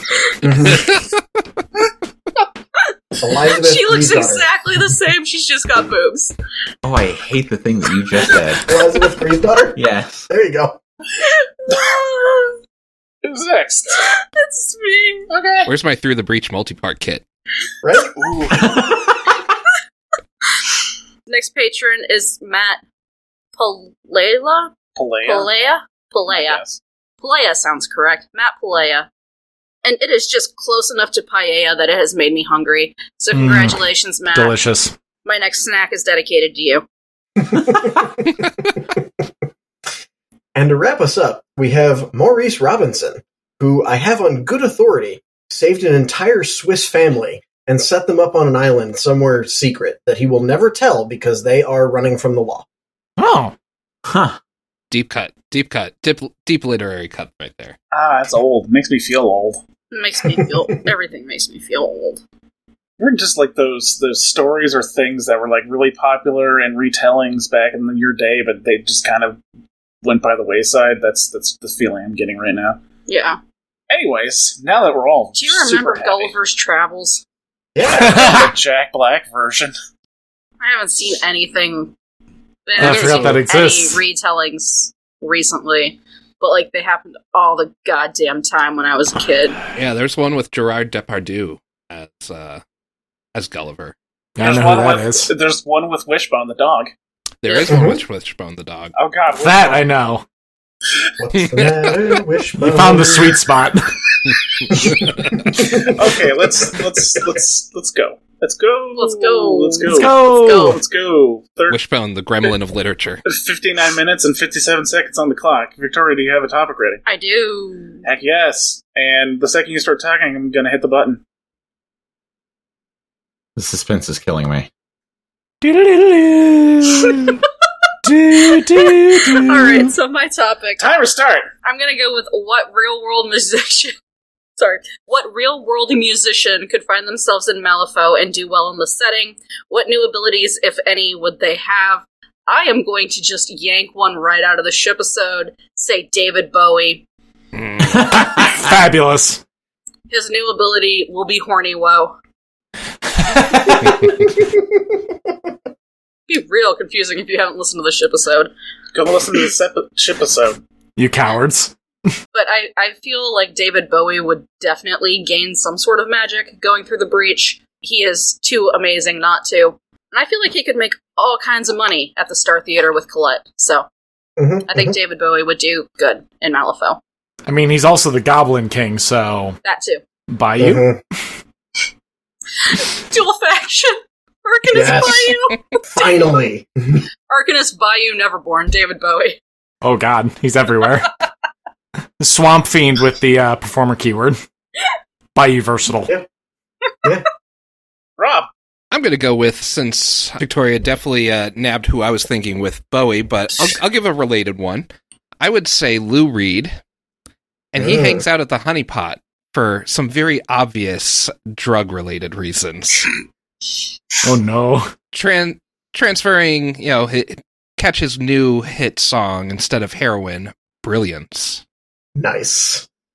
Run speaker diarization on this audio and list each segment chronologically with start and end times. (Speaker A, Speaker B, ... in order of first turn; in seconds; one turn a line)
Speaker A: 0.4-0.9
Speaker A: 3.2-4.5
Speaker B: 3.5-6.3
Speaker C: 6.8-8.7
Speaker A: 8.7-10.8
Speaker C: 9.8-10.3
Speaker B: 11.2-12.6
Speaker D: 11.7-12.0
Speaker D: 13.2-14.0
Speaker B: 14.0-15.3
Speaker D: 15.3-15.7
Speaker E: 15.7-17.2
Speaker A: 17.8-18.1
Speaker D: 18.1-18.7
Speaker C: 18.6-18.9
Speaker B: 21.3-22.8
Speaker B: 23.6-26.6
Speaker D: 24.9-25.5
Speaker D: 26.3-26.8
Speaker B: 27.2-29.1
Speaker B: 29.8-34.5
Speaker F: 33.3-33.8
Speaker F: 34.3-34.9
Speaker B: 35.2-36.9
Speaker A: 37.5-37.9
Speaker A: 40.5-52.6
Speaker F: 53.2-53.5
Speaker C: 54.0-54.4
Speaker E: 54.9-57.8
Speaker D: 57.9-59.6
Speaker B: 59.9-62.2
Speaker D: 63.0-69.4
Speaker D: 70.0-72.8
Speaker B: 73.1-73.4
Speaker D: 73.9-76.3
Speaker B: 75.3-77.2
Speaker A: 77.7-78.3
Speaker D: 77.8-79.7
Speaker F: 78.0-78.5
Speaker B: 80.6-81.9
Speaker B: 82.7-89.6
Speaker F: 82.8-84.0
Speaker E: 82.8-83.4
Speaker E: 89.7-92.6
Speaker E: 93.3-93.9
Speaker F: 94.4-95.3
Speaker D: 94.4-96.9
Speaker E: 97.4-98.9
Speaker B: 97.5-97.8
Speaker A: 97.7-98.0
Speaker D: 98.9-99.9
Speaker F: 99.4-100.2
Speaker A: 101.2-103.4
Speaker E: 101.5-102.0
Speaker F: 102.6-103.9
Speaker A: 105.5-105.9
Speaker D: 105.7-111.8
Speaker B: 108.9-110.8
Speaker F: 109.9-110.8
Speaker E: 111.7-113.2
Speaker D: 113.2-117.0
Speaker B: 117.0-118.0
Speaker D: 118.0-121.2
Speaker C: 123.5-124.7
Speaker F: 125.6-127.4
Speaker F: 128.0-129.9
Speaker B: 128.8-130.9
Speaker D: 130.8-131.5
Speaker B: 131.6-133.9
Speaker B: 134.6-147.0
Speaker E: 147.5-148.1
Speaker F: 148.0-149.4
Speaker B: 150.1-152.2
Speaker F: 153.3-153.8
Speaker B: 156.3-158.5
Speaker D: 158.9-160.6
Speaker F: 161.0-161.7
Speaker B: 162.3-173.9
Speaker A: 174.4-174.9
Speaker B: 174.7-177.0
Speaker F: 177.5-179.6
Speaker B: 179.6-180.0
Speaker F: 180.3-180.9
Speaker A: 180.6-181.0
Speaker B: 182.6-185.6
Speaker A: 184.7-185.3
Speaker A: 185.9-187.0
Speaker B: 187.3-189.4
Speaker F: 189.8-191.1
Speaker F: 192.2-194.4
Speaker F: 195.3-196.1
Speaker D: 198.2-198.5
Speaker E: 198.9-204.9
Speaker E: 205.4-206.7
Speaker E: 207.7-213.1
Speaker A: 207.8-208.2
Speaker F: 214.2-214.9
Speaker E: 215.1-221.6
Speaker A: 222.2-222.8